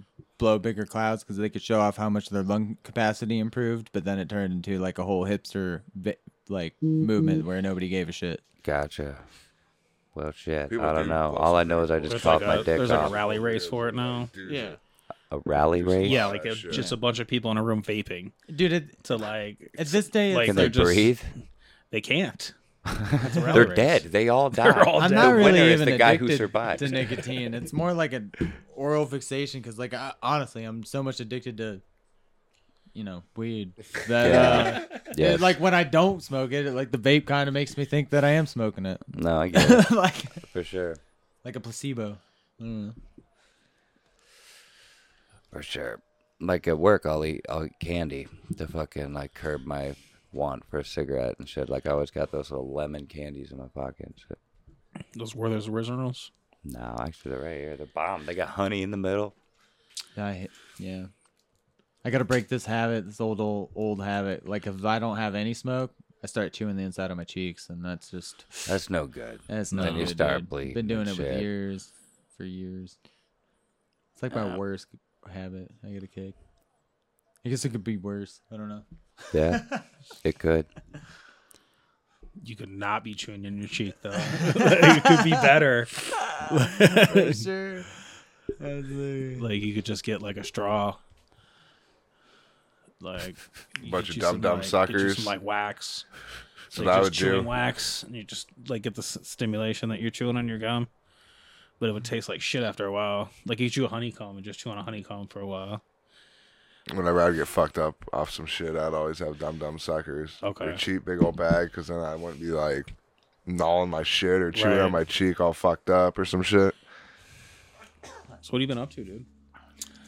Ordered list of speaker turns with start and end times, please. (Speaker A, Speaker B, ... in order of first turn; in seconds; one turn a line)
Speaker A: 0.4-8.4
Speaker B: 8.6-9.2
Speaker B: 10.2-13.2
Speaker C: 10.7-14.8
Speaker D: 12.1-14.3
Speaker A: 14.5-14.8
Speaker B: 15.3-16.3
Speaker C: 15.7-16.9
Speaker D: 16.0-18.3
Speaker A: 16.7-17.0
Speaker A: 18.5-19.0
Speaker D: 19.0-21.2
Speaker A: 19.8-20.8
Speaker B: 20.4-21.3
Speaker D: 21.9-22.5
Speaker B: 22.9-27.3
Speaker D: 23.2-25.8
Speaker A: 23.4-23.7
Speaker A: 25.0-31.8
Speaker A: 32.9-40.4
Speaker B: 34.2-35.6
Speaker D: 34.3-35.0
Speaker B: 39.1-41.0
Speaker A: 41.4-43.0
Speaker B: 45.5-54.4
Speaker D: 55.1-56.3
Speaker B: 56.6-59.4
Speaker A: 60.2-61.1
Speaker A: 62.0-68.8
Speaker B: 68.7-71.5
Speaker A: 69.5-73.0
Speaker A: 74.2-76.3
Speaker A: 77.4-79.8
Speaker B: 79.3-79.7
Speaker B: 80.2-80.7
Speaker D: 82.4-87.5
Speaker A: 84.3-85.5
Speaker A: 86.2-88.0
Speaker A: 88.6-89.5
Speaker D: 89.4-91.0
Speaker D: 93.0-96.1
Speaker C: 93.8-95.3
Speaker C: 96.7-97.5
Speaker D: 96.7-100.9
Speaker D: 101.8-105.8
Speaker C: 106.9-112.9
Speaker D: 110.4-110.8
Speaker C: 113.5-116.8
Speaker D: 114.5-115.0
Speaker D: 118.4-119.3